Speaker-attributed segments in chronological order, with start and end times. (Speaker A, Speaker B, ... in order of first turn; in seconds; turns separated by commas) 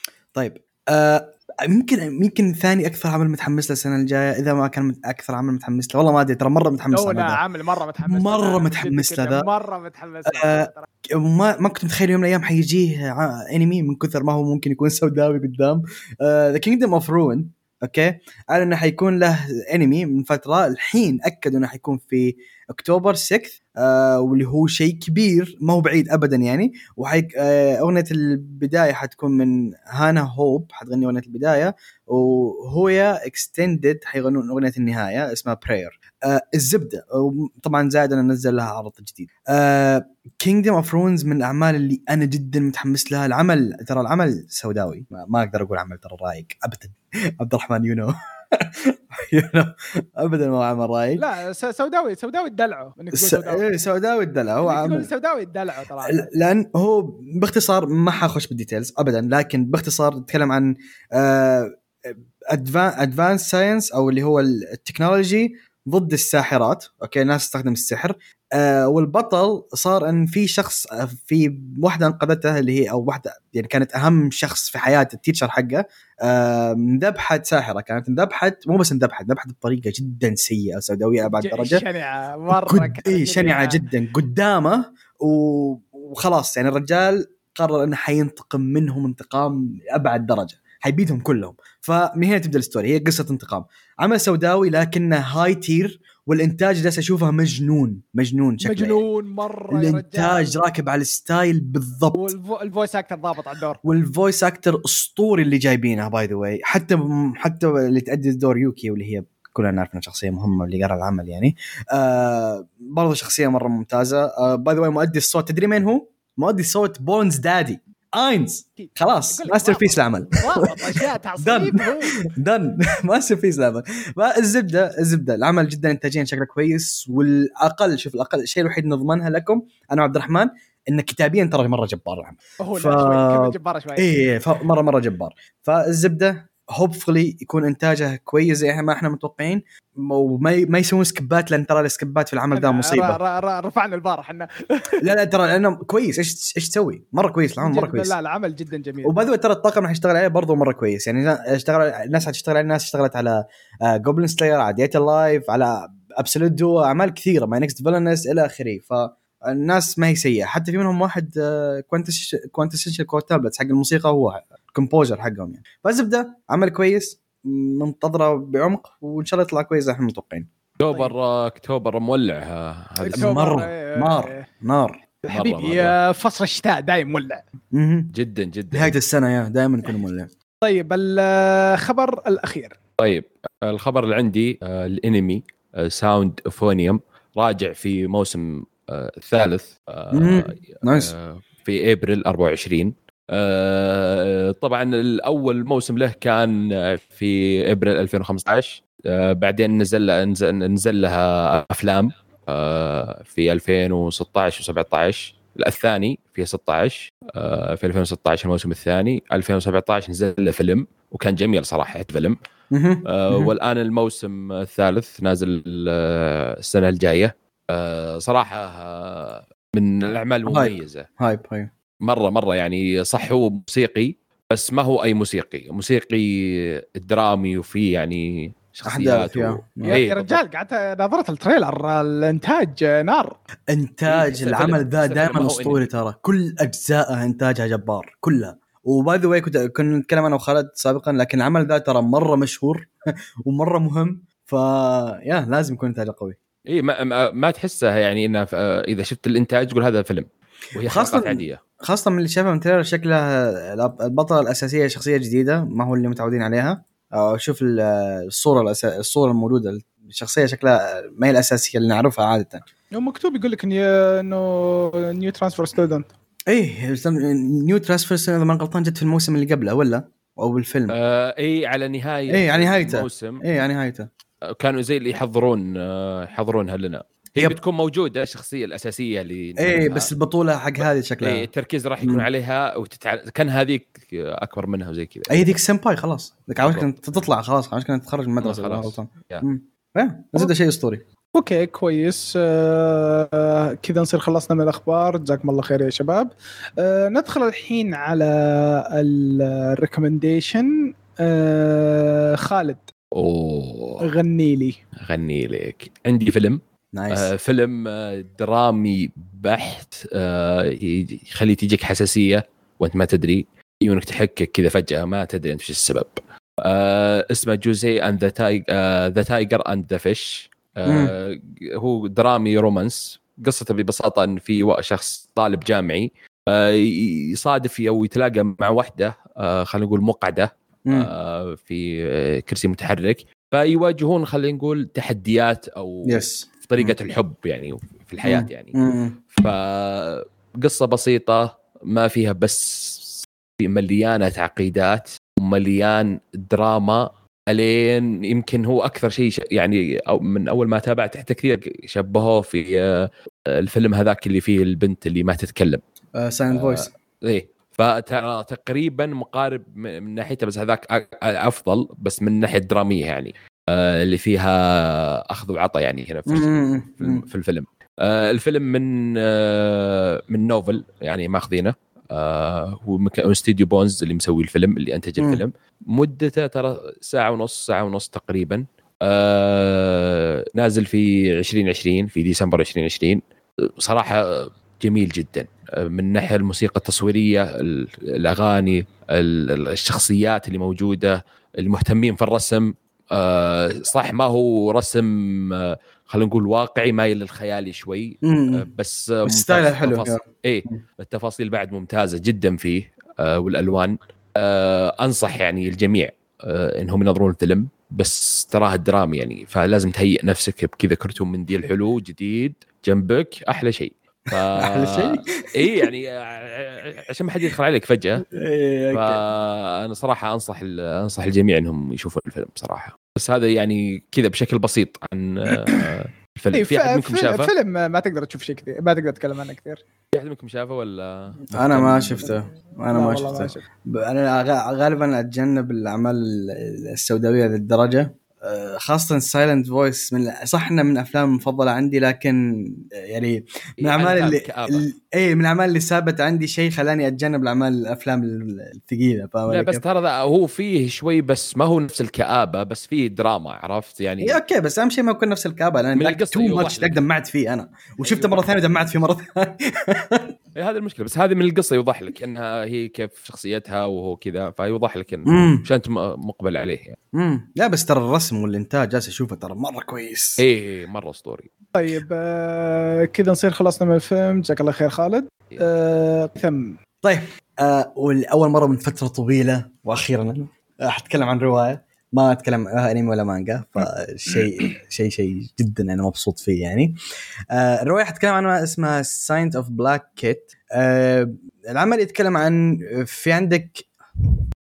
Speaker A: 0.3-7.4, Speaker B: 6.9-10.9, Speaker A: 8.1-9.5, Speaker A: 10.3-51.2, Speaker B: 51.2-53.7, Speaker A: 53.1-55.1, Speaker B: 54.6-56.3, Speaker A: 56.1-81.8, Speaker B: 81.2-83.9, Speaker A: 82.5-99.0, Speaker B: 98.6-100.5, Speaker A: 99.7-102.3, Speaker B: 102.1-103.8, Speaker A: 103.8-143.2, Speaker B: 118.8-122.2, Speaker B: 132.6-134.3, Speaker B: 142.5-144.9, Speaker A: 145.0-148.1, Speaker B: 147.6-149.2, Speaker A: 149.0-170.5, Speaker C: 170.8-173.3, Speaker B: 173.1-174.5, Speaker A: 173.1-175.0, Speaker B: 175.2-177.4, Speaker C: 175.3-176.0, Speaker A: 177.7-178.1, Speaker C: 178.1-178.9, Speaker A: 178.7-180.3, Speaker B: 180.6-182.8, Speaker C: 183.0-212.4, Speaker A: 190.1-191.1, Speaker A: 212.7-213.5, Speaker C: 213.1-221.1, Speaker A: 220.5-221.7, Speaker C: 222.0-230.4, Speaker A: 228.9-230.0, Speaker B: 229.8-233.4, Speaker A: 233.7-242.9, Speaker C: 234.1-235.8, Speaker A: 243.4-246.4, Speaker C: 246.7-251.6, Speaker A: 250.9-262.6, Speaker B: 262.9-266.1, Speaker A: 266.5-271.0, Speaker C: 270.9-273.4, Speaker A: 272.3-274.1, Speaker C: 274.6-280.1, Speaker A: 279.6-281.5, Speaker C: 280.8-285.5, Speaker A: 285.3-291.0, Speaker C: 286.6-287.3, Speaker C: 288.4-289.4, Speaker B: 291.4-302.9, Speaker C: 303.1-304.0, Speaker B: 304.0-304.8, Speaker C: 305.0-306.6, Speaker A: 306.9-307.3, Speaker C: 307.1-355.8, Speaker A: 320.9-321.1, Speaker A: 336.1-337.0, Speaker A: 338.2-339.2, Speaker A: 356.2-356.9, Speaker C: 356.5-383.2, Speaker A: 366.3-367.2, Speaker C: 383.8-418.2, Speaker A: 398.2-398.7, Speaker A: 399.3-400.8, Speaker A: 414.6-415.9, Speaker A: 418.3-419.2, Speaker C: 418.9-427.5, Speaker B: 425.5-425.9, Speaker B: 426.5-429.8, Speaker C: 430.1-432.3, Speaker A: 431.5-449.8, Speaker B: 432.9-433.6, Speaker C: 443.8-444.9, Speaker C: 449.5-454.4, Speaker A: 454.2-460.3, Speaker C: 456.0-457.0, Speaker C: 458.0-458.5, Speaker C: 460.6-467.0, Speaker A: 465.3-465.6, Speaker A: 467.1-470.4, Speaker C: 470.4-471.5, Speaker B: 471.8-476.8, Speaker A: 477.0-486.9, Speaker A: 487.5-494.4